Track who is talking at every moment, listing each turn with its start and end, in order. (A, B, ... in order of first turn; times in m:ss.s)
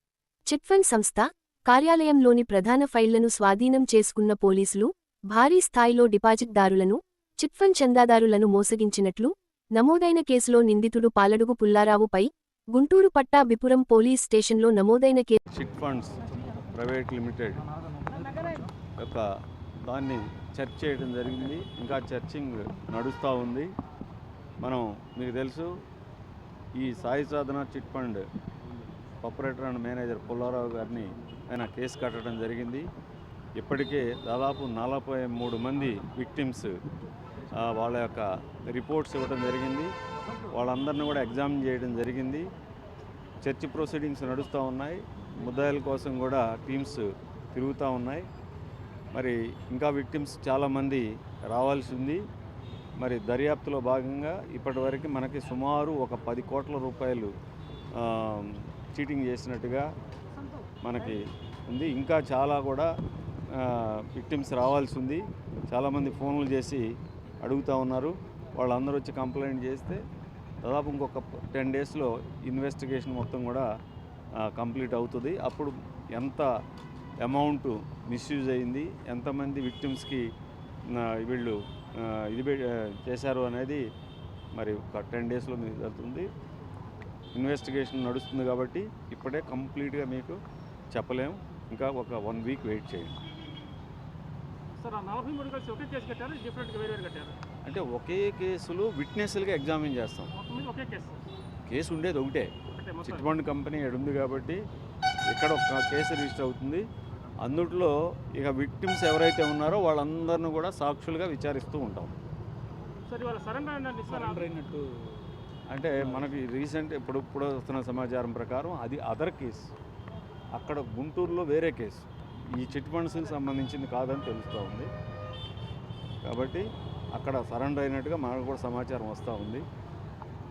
0:00.5-0:15.4 A
0:15.5-0:16.2 B
0:16.7-0:17.6 B
0:19.9-0:23.7 B
0:24.6-0:25.7 B
0:26.8-0:28.2 B
0:29.2-0:32.9 B
0:33.6-0:36.7 B
0:37.6-0:39.9 B
0:40.5-0:42.5 B
0:43.4-0:48.2 B
0:49.1-0:52.2 B
0:53.0-0:57.3 B
0:58.0-0:59.9 B
1:00.8-1:02.9 B
1:03.6-1:06.8 B
1:07.4-1:10.0 B
1:10.6-1:13.6 B
1:14.4-1:16.5 B
1:17.2-1:20.2 B
1:20.9-1:23.8 B
1:24.5-1:26.3 B
1:27.3-1:30.4 B
1:30.9-1:33.2 B
1:34.8-1:37.4 C
1:37.6-1:40.3 B
1:40.4-1:41.2 C
1:41.7-1:44.6 B
1:42.7-1:43.2 C
1:45.3-1:46.8 B
1:47.4-1:52.2 B
1:53.1-1:54.6 C
1:55.7-1:59.7 B
2:00.5-2:04.9 B
2:06.2-2:09.6 B